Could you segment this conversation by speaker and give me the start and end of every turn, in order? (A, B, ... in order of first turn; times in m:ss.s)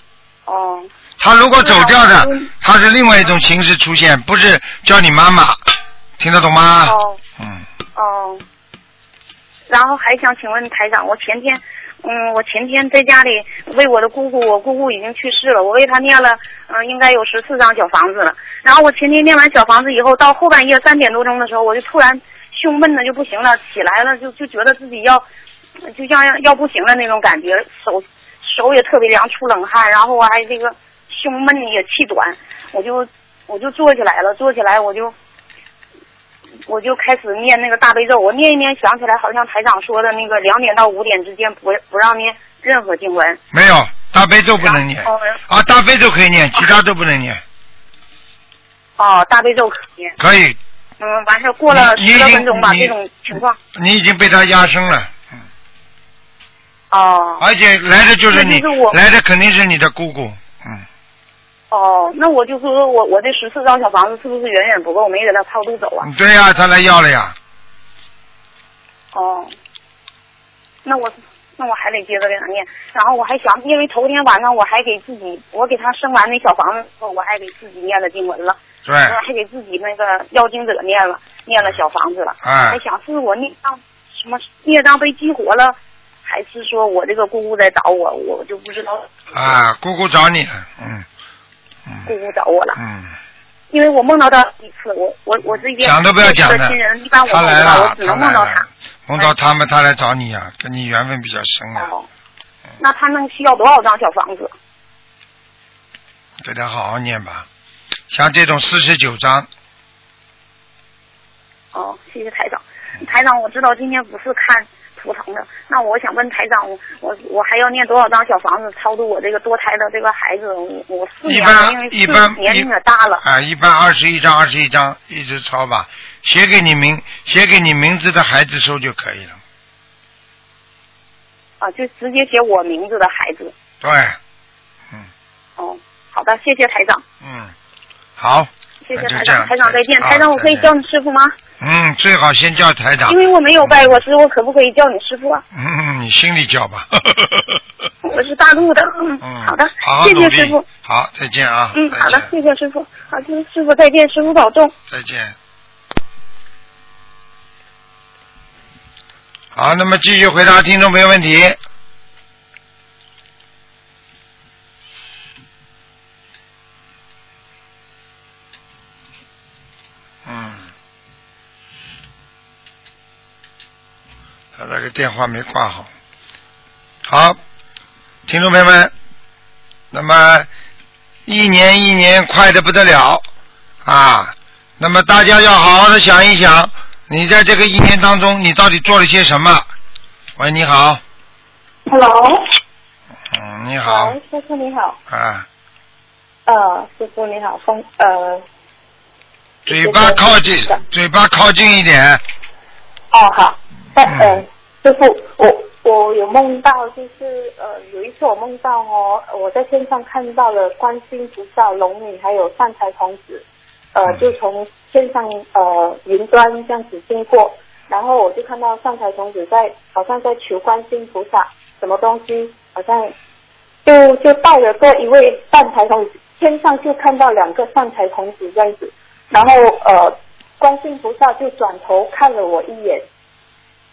0:00.5-0:00.9 A
0:01.2-0:05.6 B
0:01.6-0:02.5 A
0:06.2-0:07.7 B
0:06.9-0:07.2 A
0:08.0-0:08.4 A
0:09.7-0:25.2 A
0:25.9-0:35.1 A
0:36.7-0:43.4 A
0:43.5-0:47.4 B
0:44.6-0:45.4 A
0:49.0-0:50.1 A
0:50.2-0:50.6 B
0:51.0-0:53.6 A
0:51.7-0:52.9 B
0:53.7-0:55.2 B
0:56.9-0:57.4 A
0:57.4-1:00.8 B
0:58.3-0:59.0 A
1:01.7-1:06.1 A
1:06.0-1:07.4 B
1:09.1-1:09.5 A
1:10.8-1:29.6 A
1:18.9-1:19.2 B
1:22.4-1:22.8 B
1:29.3-1:31.1 B
1:32.1-1:32.8 A
1:32.8-1:33.1 B
1:33.7-1:38.6 A
1:35.8-1:36.8 B
1:37.3-1:41.9 B
1:41.8-1:42.1 A
1:42.8-1:44.5 A
1:46.4-1:47.5 B
1:48.1-1:49.5 B
1:51.7-2:03.2 A
2:01.2-2:02.7 B
2:03.2-2:09.4 B
2:11.6-2:13.5 A
2:13.8-2:14.2 B
2:15.6-2:17.0 A
2:17.2-2:17.5 B
2:18.2-2:20.7 B
2:18.8-2:21.3 A
2:21.6-2:24.0 B
2:23.1-2:25.4 A
2:25.5-2:27.6 B
2:28.0-2:30.6 A
2:29.2-2:32.3 B
2:31.8-2:34.7 A
2:34.9-2:35.4 B
2:39.6-2:41.6 B
2:50.2-2:50.7 B
2:54.6-2:55.9 B
2:57.1-2:57.4 B
2:58.3-2:58.9 B
2:59.9-3:00.5 B
3:01.3-3:03.2 B
3:03.8-3:09.7 B
3:10.4-3:11.0 B
3:11.9-3:12.4 C
3:13.3-3:14.2 B
3:13.8-3:15.0 C
3:15.1-3:15.5 B
3:16.5-3:18.4 C
3:19.7-3:20.8 C
3:19.7-3:22.2 B
3:23.1-3:43.1 C
3:24.0-3:24.4 B
3:43.8-3:53.0 C